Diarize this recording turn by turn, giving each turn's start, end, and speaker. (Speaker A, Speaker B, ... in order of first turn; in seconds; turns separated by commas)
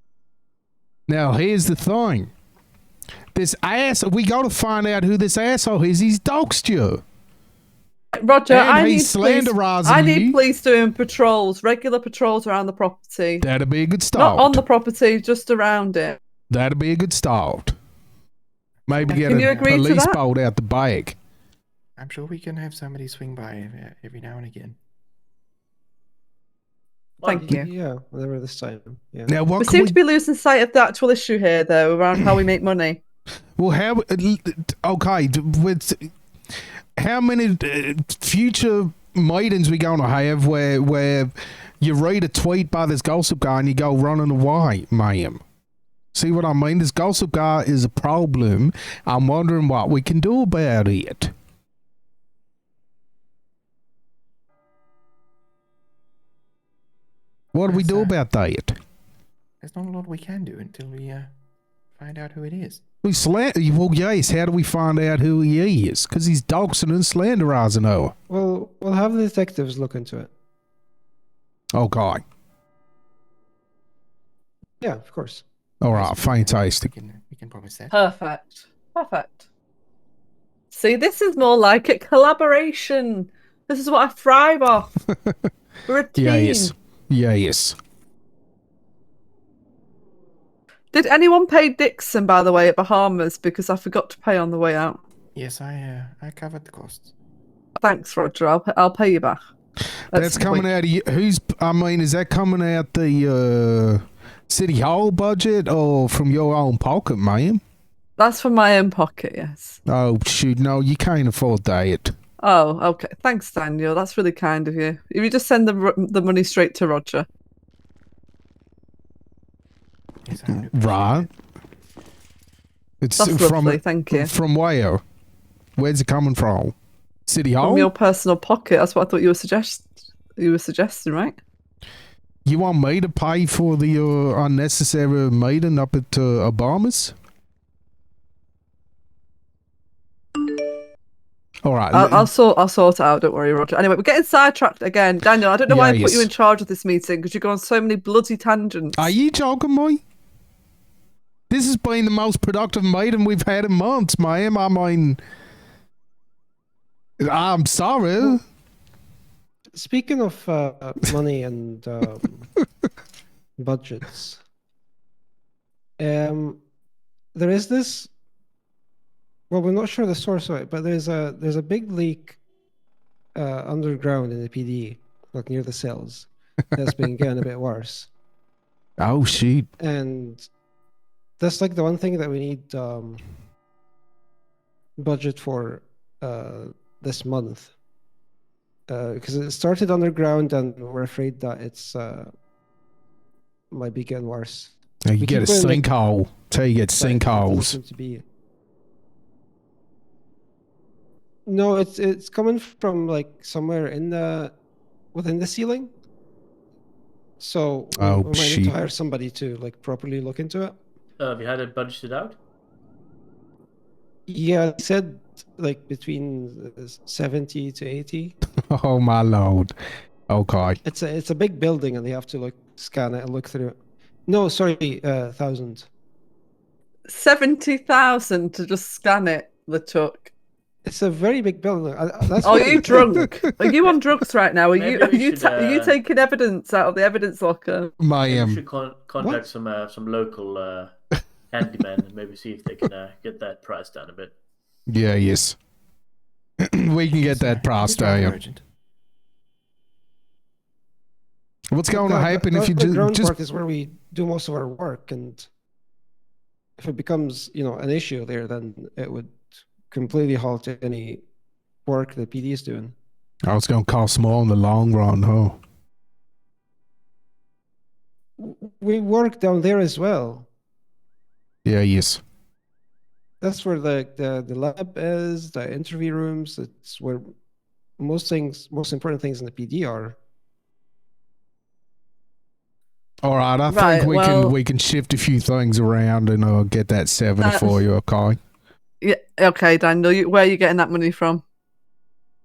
Speaker A: 1.1-2.3, Speaker A: 3.3-7.0, Speaker B: 8.1-13.5, Speaker A: 8.5-10.4, Speaker A: 13.4-14.6, Speaker B: 14.2-16.2, Speaker A: 16.5-17.8, Speaker C: 18.9-19.8, Speaker A: 18.9-21.2, Speaker B: 19.2-20.2, Speaker C: 22.0-24.8, Speaker D: 27.2-27.5, Speaker B: 27.2-27.7, Speaker E: 27.3-29.3, Speaker A: 29.3-30.0, Speaker B: 29.6-33.0, Speaker A: 33.6-36.1, Speaker A: 37.0-45.4, Speaker A: 46.1-51.3, Speaker A: 57.5-58.8, Speaker C: 57.7-58.1, Speaker C: 59.6-61.3, Speaker C: 62.0-62.8, Speaker A: 63.0-68.1, Speaker E: 68.3-70.3, Speaker A: 71.8-72.2, Speaker E: 74.8-75.5, Speaker A: 75.8-76.9, Speaker C: 75.9-78.0, Speaker B: 77.9-79.4, Speaker B: 80.7-84.9, Speaker A: 85.1-85.5, Speaker B: 85.9-86.7, Speaker A: 86.2-87.8, Speaker B: 90.9-95.0, Speaker C: 95.3-97.1, Speaker B: 97.8-99.4, Speaker B: 100.1-100.7, Speaker A: 100.1-107.6, Speaker B: 108.2-109.8, Speaker A: 109.9-112.1, Speaker B: 112.4-117.3, Speaker C: 120.3-121.3, Speaker A: 120.7-121.3, Speaker A: 123.0-125.0, Speaker B: 123.2-124.3, Speaker A: 125.8-126.8, Speaker A: 127.3-127.9, Speaker B: 127.6-131.4, Speaker A: 132.4-137.2, Speaker A: 141.6-142.3, Speaker B: 141.9-149.1, Speaker A: 145.7-146.3, Speaker A: 149.0-150.0, Speaker A: 151.5-155.2, Speaker A: 157.2-158.4, Speaker E: 159.7-162.5, Speaker E: 163.6-164.4, Speaker E: 166.0-166.6, Speaker E: 167.3-168.1, Speaker E: 169.5-172.4, Speaker E: 173.4-178.1, Speaker A: 179.0-179.7, Speaker E: 179.8-180.4, Speaker E: 181.4-183.2, Speaker E: 185.0-187.7, Speaker E: 188.9-192.3, Speaker E: 193.7-195.9, Speaker A: 195.1-197.8, Speaker E: 196.9-198.2, Speaker E: 201.5-204.5, Speaker E: 205.1-205.9, Speaker E: 207.4-210.8, Speaker A: 208.0-208.8, Speaker D: 211.2-212.4, Speaker E: 214.3-218.3, Speaker A: 218.7-219.7, Speaker A: 220.3-220.8, Speaker E: 220.8-223.8, Speaker E: 224.3-225.9, Speaker B: 227.1-230.3, Speaker E: 230.8-233.3, Speaker B: 232.4-237.9, Speaker D: 234.7-236.0, Speaker A: 238.0-238.6, Speaker D: 238.3-240.9, Speaker D: 241.5-244.3, Speaker A: 244.9-245.6, Speaker A: 246.6-248.4, Speaker C: 247.2-248.6, Speaker A: 251.7-253.3, Speaker E: 251.9-255.5, Speaker E: 256.8-261.2, Speaker E: 261.9-262.9, Speaker A: 263.5-265.6, Speaker E: 268.4-270.5, Speaker A: 271.6-272.2, Speaker E: 273.4-277.3, Speaker E: 278.0-280.2, Speaker A: 283.2-288.4, Speaker B: 283.7-284.6, Speaker B: 287.4-287.8, Speaker B: 289.0-291.4